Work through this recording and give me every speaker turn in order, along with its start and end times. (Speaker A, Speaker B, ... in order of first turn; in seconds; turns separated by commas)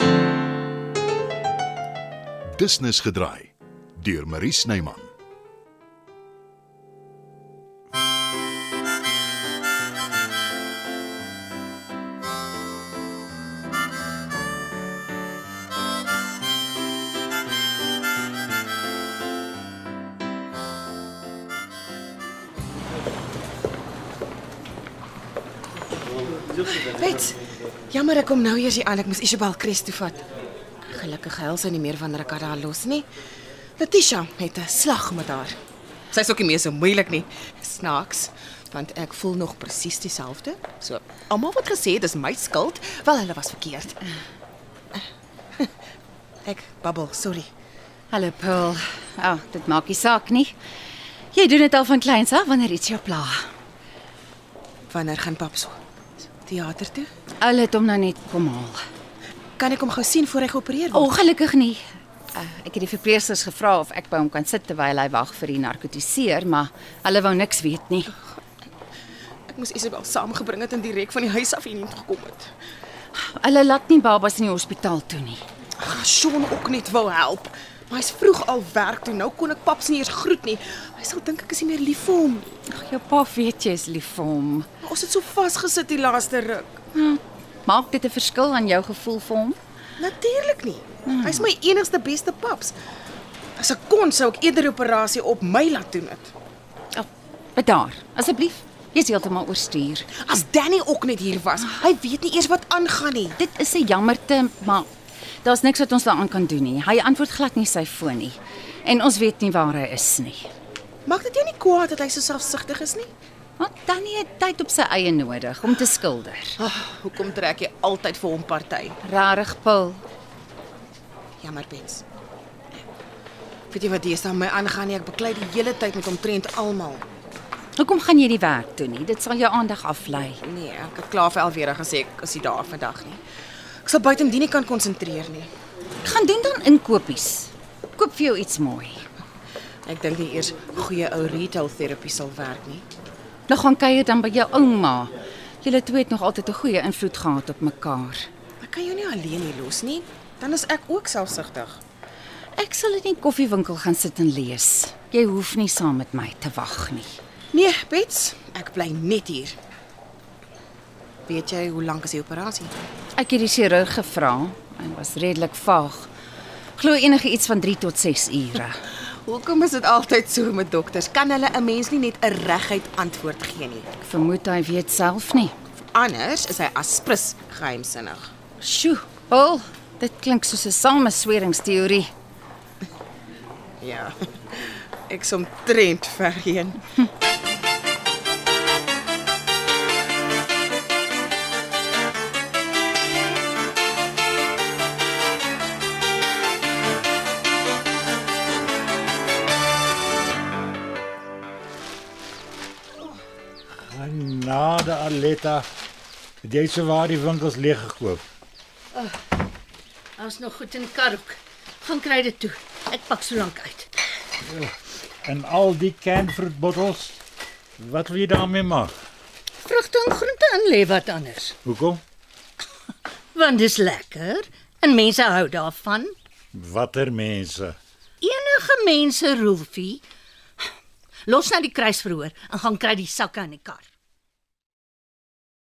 Speaker A: 2.5-5.1, Speaker B: 26.6-27.4, Speaker B: 27.9-30.2, Speaker B: 30.9-33.1, Speaker B: 33.8-35.6, Speaker B: 36.1-44.0, Speaker B: 46.4-47.5, Speaker C: 48.1-50.5, Speaker C: 51.3-53.4, Speaker B: 54.9-55.8, Speaker B: 56.4-57.1, Speaker C: 57.4-58.8, Speaker B: 59.6-61.1, Speaker C: 60.9-68.1, Speaker B: 69.5-72.5, Speaker C: 73.1-75.4, Speaker B: 75.8-82.5, Speaker C: 82.7-84.7, Speaker B: 84.8-86.7, Speaker C: 86.9-89.6, Speaker B: 90.0-92.8, Speaker C: 91.1-91.5, Speaker B: 93.6-96.3, Speaker C: 96.9-100.1, Speaker B: 100.2-103.4, Speaker C: 103.4-104.9, Speaker C: 105.4-110.5, Speaker B: 111.0-113.1, Speaker C: 113.6-116.6, Speaker B: 116.6-119.0, Speaker C: 119.0-120.0, Speaker B: 121.4-122.0, Speaker B: 123.7-127.0, Speaker C: 127.8-130.4, Speaker B: 130.4-133.2, Speaker B: 133.8-135.5, Speaker C: 136.0-139.0, Speaker B: 139.8-142.8, Speaker C: 143.5-148.3, Speaker B: 148.6-151.8, Speaker C: 152.5-157.2, Speaker B: 157.5-159.6, Speaker B: 161.3-162.7, Speaker C: 163.2-166.1, Speaker C: 166.8-168.8, Speaker B: 168.9-173.9, Speaker C: 174.0-175.5, Speaker B: 175.9-178.3, Speaker C: 178.6-182.1, Speaker B: 183.8-186.8, Speaker D: 203.7-205.7, Speaker D: 206.4-208.2, Speaker E: 210.2-213.9, Speaker D: 214.4-217.2, Speaker D: 217.8-218.9, Speaker E: 219.6-221.6, Speaker D: 221.6-222.0, Speaker E: 223.3-226.1, Speaker D: 226.5-227.8, Speaker E: 228.2-230.0, Speaker E: 231.2-233.9